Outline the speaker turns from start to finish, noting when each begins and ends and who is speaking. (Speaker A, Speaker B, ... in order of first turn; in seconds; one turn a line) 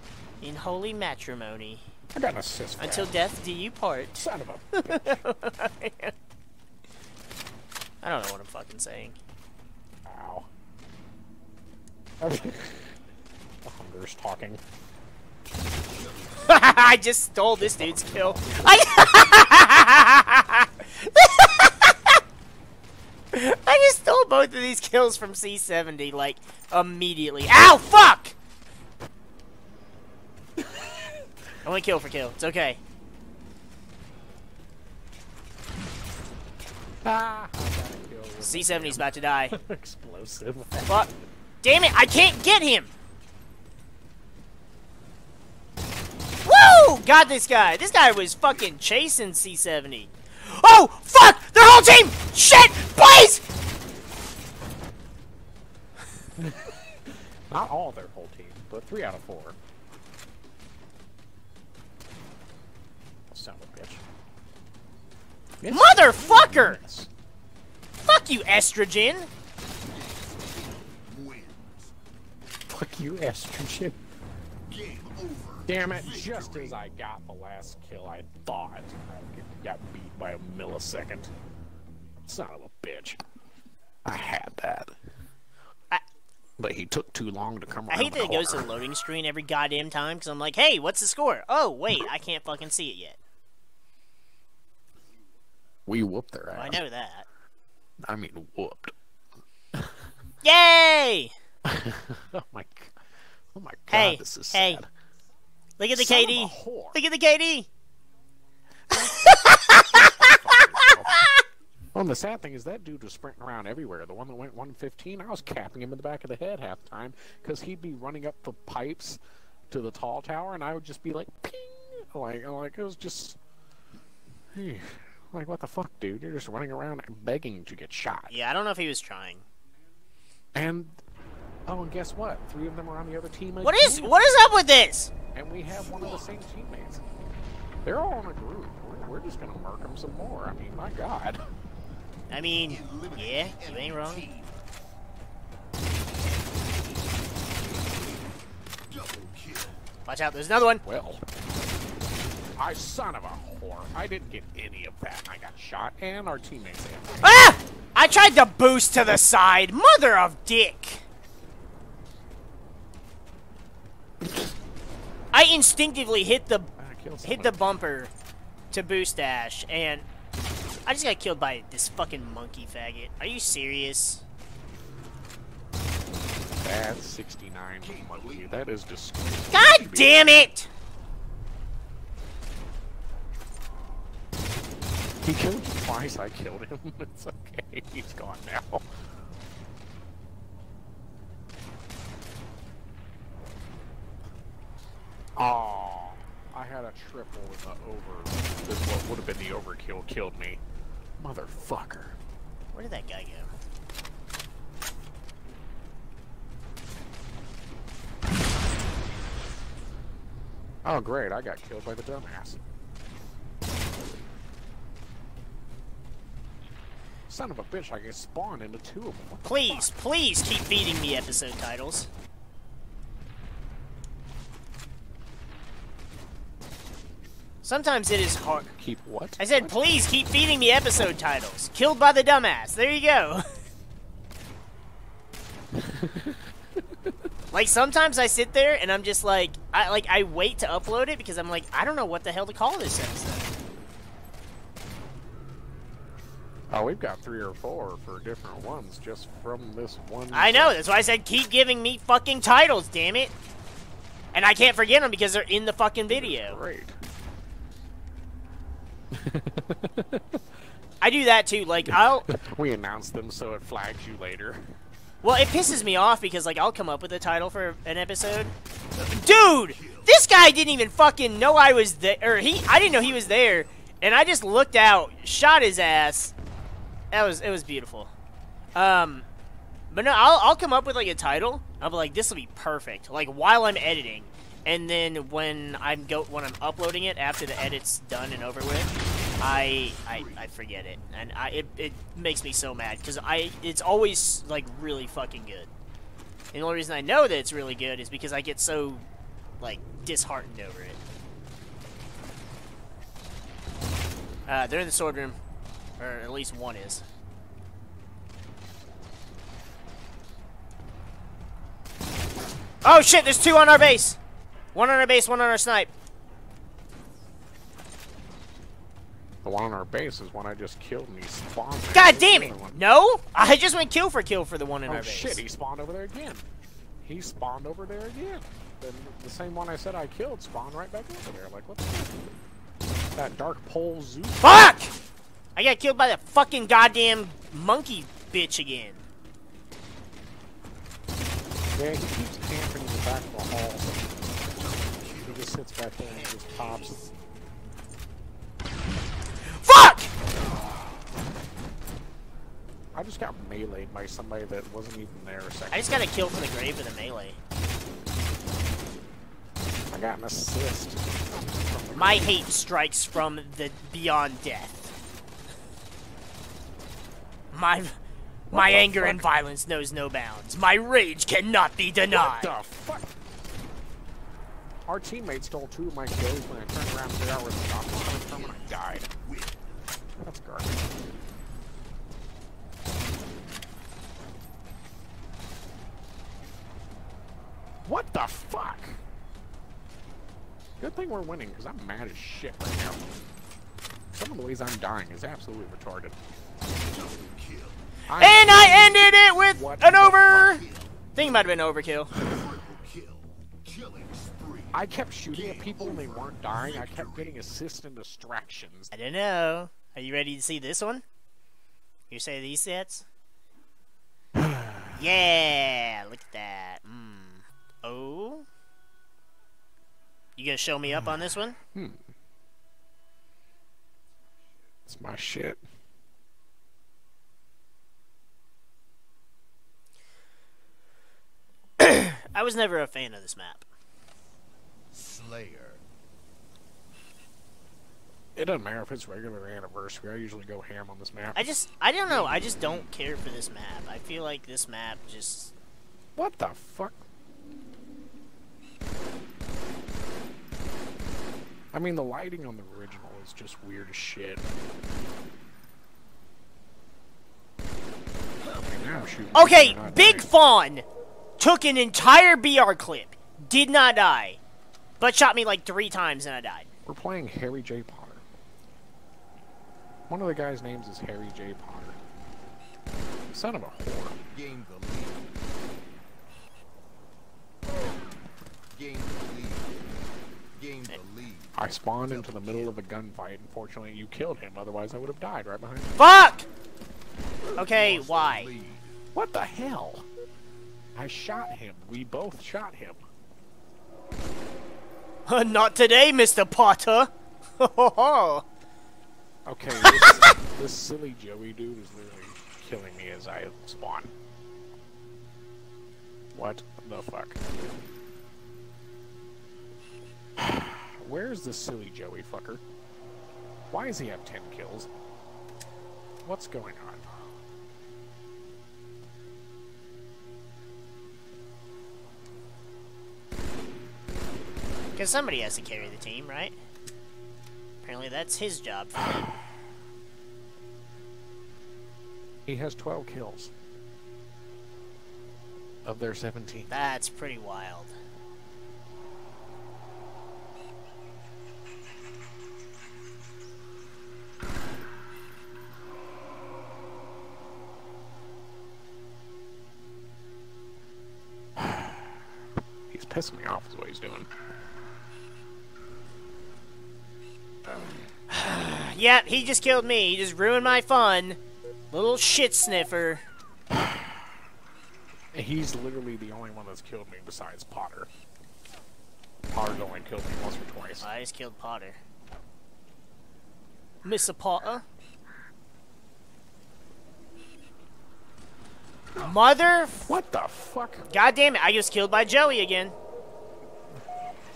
Speaker A: 0.4-1.9
Speaker B: 2.1-3.1
Speaker A: 2.8-6.1
Speaker B: 4.0-5.2
Speaker A: 8.0-9.2
Speaker B: 10.0-10.5
Speaker B: 12.2-13.0
Speaker B: 13.6-14.6
Speaker A: 16.4-22.2
Speaker B: 17.6-19.3
Speaker A: 23.3-28.3
Speaker A: 31.6-32.8
Speaker B: 37.0-41.0
Speaker A: 38.4-39.6
Speaker A: 41.6-42.9
Speaker A: 46.4-53.5
Speaker B: 56.4-59.6
Speaker B: 63.3-64.0
Speaker B: 65.6-67.1
Speaker A: 65.7-66.8
Speaker A: 68.0-69.3
Speaker C: 69.9-71.9
Speaker B: 72.7-74.0
Speaker C: 74.7-76.8
Speaker B: 75.7-81.3
Speaker B: 82.3-83.2
Speaker B: 84.0-84.9
Speaker B: 86.6-88.8
Speaker A: 87.9-93.2
Speaker B: 95.8-96.8
Speaker A: 96.5-97.3
Speaker B: 98.0-98.9
Speaker B: 99.7-100.0
Speaker A: 100.4-101.3
Speaker B: 101.6-103.0
Speaker B: 103.5-104.9
Speaker A: 103.9-104.8
Speaker A: 105.8-107.7
Speaker B: 105.9-107.0
Speaker B: 108.9-111.2
Speaker A: 108.9-111.4
Speaker B: 111.9-123.4
Speaker B: 124.5-128.3
Speaker A: 128.3-129.4
Speaker B: 130.5-131.0
Speaker B: 131.7-134.2
Speaker A: 133.6-135.1
Speaker B: 135.3-137.0
Speaker C: 135.7-136.4
Speaker B: 137.8-141.4
Speaker A: 142.3-144.2
Speaker C: 142.6-144.7
Speaker C: 146.4-149.8
Speaker A: 150.1-150.8
Speaker B: 150.8-151.2
Speaker B: 152.6-157.3
Speaker A: 157.2-161.0
Speaker A: 165.3-166.7
Speaker B: 166.8-167.7
Speaker A: 167.2-168.1
Speaker A: 168.7-170.1
Speaker A: 170.8-174.2
Speaker B: 176.6-180.3
Speaker C: 177.8-178.6
Speaker A: 179.5-180.7
Speaker B: 185.2-188.9
Speaker B: 195.3-200.6
Speaker B: 201.2-202.2
Speaker A: 202.7-203.5
Speaker B: 210.8-212.6
Speaker B: 217.3-219.9
Speaker A: 219.4-222.1
Speaker A: 227.6-228.7
Speaker B: 228.8-229.8
Speaker A: 229.4-233.5
Speaker B: 235.7-237.1
Speaker A: 237.5-243.5
Speaker B: 246.7-250.8
Speaker A: 250.3-253.3
Speaker A: 254.3-256.6
Speaker B: 256.1-256.9
Speaker B: 259.1-260.4
Speaker A: 261.0-262.3
Speaker B: 261.8-264.6
Speaker A: 265.2-268.5
Speaker C: 268.9-270.1
Speaker A: 269.1-276.3
Speaker C: 272.6-273.8
Speaker A: 277.1-278.1
Speaker A: 278.7-279.2
Speaker A: 279.9-295.7
Speaker C: 289.5-290.5
Speaker A: 296.5-299.0
Speaker A: 299.6-301.0
Speaker A: 304.5-305.4
Speaker A: 306.0-307.0
Speaker A: 312.8-314.2
Speaker A: 314.7-315.9
Speaker B: 319.4-322.8
Speaker A: 321.9-325.4
Speaker B: 324.9-326.5
Speaker B: 327.0-332.2
Speaker B: 333.1-334.7
Speaker A: 334.4-334.9
Speaker A: 335.6-339.0
Speaker B: 341.7-344.3
Speaker C: 344.4-347.2
Speaker B: 345.2-347.0
Speaker A: 349.5-350.1
Speaker B: 352.9-356.1
Speaker A: 355.7-357.4
Speaker B: 359.9-362.4
Speaker A: 361.9-364.9
Speaker A: 367.5-368.0
Speaker A: 368.5-372.6
Speaker B: 368.5-369.2
Speaker B: 372.1-373.1
Speaker B: 374.9-379.1
Speaker C: 377.9-379.8
Speaker B: 380.2-380.9
Speaker B: 387.8-389.0
Speaker B: 390.8-393.1
Speaker B: 394.1-396.2
Speaker C: 396.8-398.0
Speaker B: 398.1-400.6
Speaker A: 398.2-400.6
Speaker C: 400.3-401.4
Speaker A: 401.1-402.1
Speaker C: 402.1-407.4
Speaker B: 404.7-408.9
Speaker A: 408.9-411.0
Speaker A: 412.1-413.0
Speaker B: 414.4-415.0
Speaker A: 414.9-418.4
Speaker A: 420.4-421.6
Speaker B: 421.7-422.0
Speaker B: 424.9-425.6
Speaker A: 431.8-433.6
Speaker C: 434.9-435.8
Speaker B: 438.4-441.5
Speaker A: 441.3-445.5
Speaker B: 442.1-442.8
Speaker B: 446.1-447.0
Speaker B: 451.7-454.4
Speaker C: 458.6-459.2
Speaker B: 458.6-460.3
Speaker A: 459.3-460.9
Speaker A: 461.4-464.4
Speaker A: 465.0-466.7
Speaker B: 466.9-468.2
Speaker B: 470.1-472.0
Speaker B: 473.3-474.1
Speaker C: 474.3-475.3
Speaker C: 478.7-479.9
Speaker C: 480.5-482.8
Speaker B: 481.5-486.0
Speaker A: 486.0-486.5
Speaker C: 487.6-489.0
Speaker A: 487.6-488.5
Speaker B: 489.1-490.1
Speaker B: 490.9-493.0
Speaker A: 495.2-498.4
Speaker B: 499.4-504.1
Speaker A: 499.8-500.3
Speaker B: 506.3-507.4
Speaker B: 510.4-512.6
Speaker B: 513.7-514.9
Speaker B: 516.2-517.0
Speaker A: 525.0-526.5
Speaker A: 527.8-529.3
Speaker B: 532.5-533.5
Speaker B: 535.8-536.7
Speaker A: 536.7-537.9
Speaker B: 551.6-552.1
Speaker B: 552.9-554.3
Speaker A: 558.3-561.4
Speaker A: 561.9-563.2
Speaker B: 565.3-568.1
Speaker B: 569.5-571.1
Speaker A: 571.0-572.0
Speaker A: 574.0-574.8
Speaker A: 579.1-580.1
Speaker B: 580.1-581.1
Speaker A: 581.1-582.9